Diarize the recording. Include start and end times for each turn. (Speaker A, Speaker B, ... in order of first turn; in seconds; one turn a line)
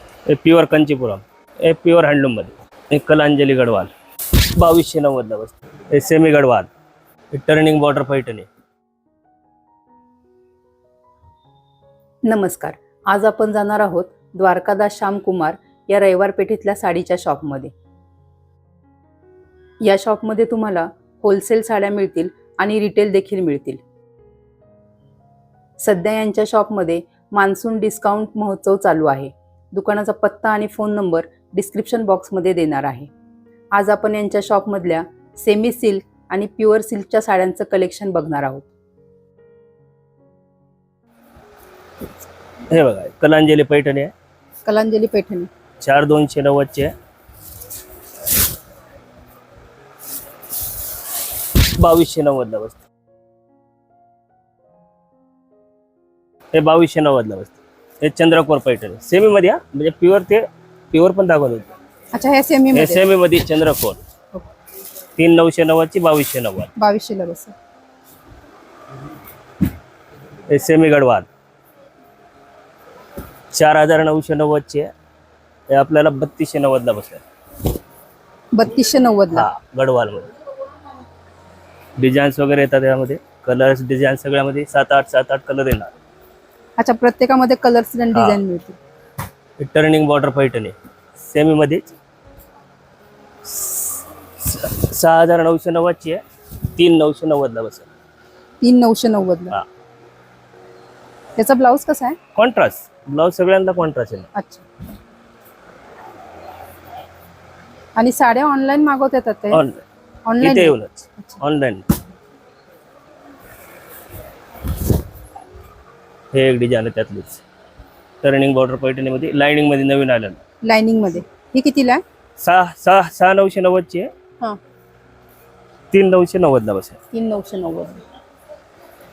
Speaker A: 0.3-3.9
Speaker A: 4.6-6.7
Speaker A: 7.3-8.5
Speaker B: 12.3-17.7
Speaker B: 19.9-23.8
Speaker B: 25.8-33.1
Speaker B: 33.7-38.7
Speaker A: 42.7-44.1
Speaker B: 44.6-45.5
Speaker A: 45.8-46.9
Speaker A: 51.6-52.8
Speaker A: 56.5-61.7
Speaker B: 62.1-63.1
Speaker A: 62.7-64.0
Speaker A: 65.2-66.7
Speaker B: 66.8-67.5
Speaker A: 70.5-71.3
Speaker A: 73.5-74.9
Speaker A: 75.7-77.2
Speaker B: 78.5-79.5
Speaker A: 79.3-80.3
Speaker A: 82.0-85.9
Speaker B: 86.8-88.8
Speaker A: 88.1-88.4
Speaker A: 89.6-91.9
Speaker A: 93.5-96.2
Speaker A: 96.8-97.9
Speaker B: 98.6-99.5
Speaker B: 101.4-102.2
Speaker A: 102.3-104.3
Speaker B: 104.3-104.7
Speaker B: 108.0-109.6
Speaker A: 109.5-109.8
Speaker B: 110.3-111.4
Speaker A: 110.4-111.9
Speaker A: 116.3-117.4
Speaker A: 118.2-120.4
Speaker B: 120.7-122.0
Speaker A: 122.4-124.1
Speaker A: 125.9-127.0
Speaker B: 127.1-128.0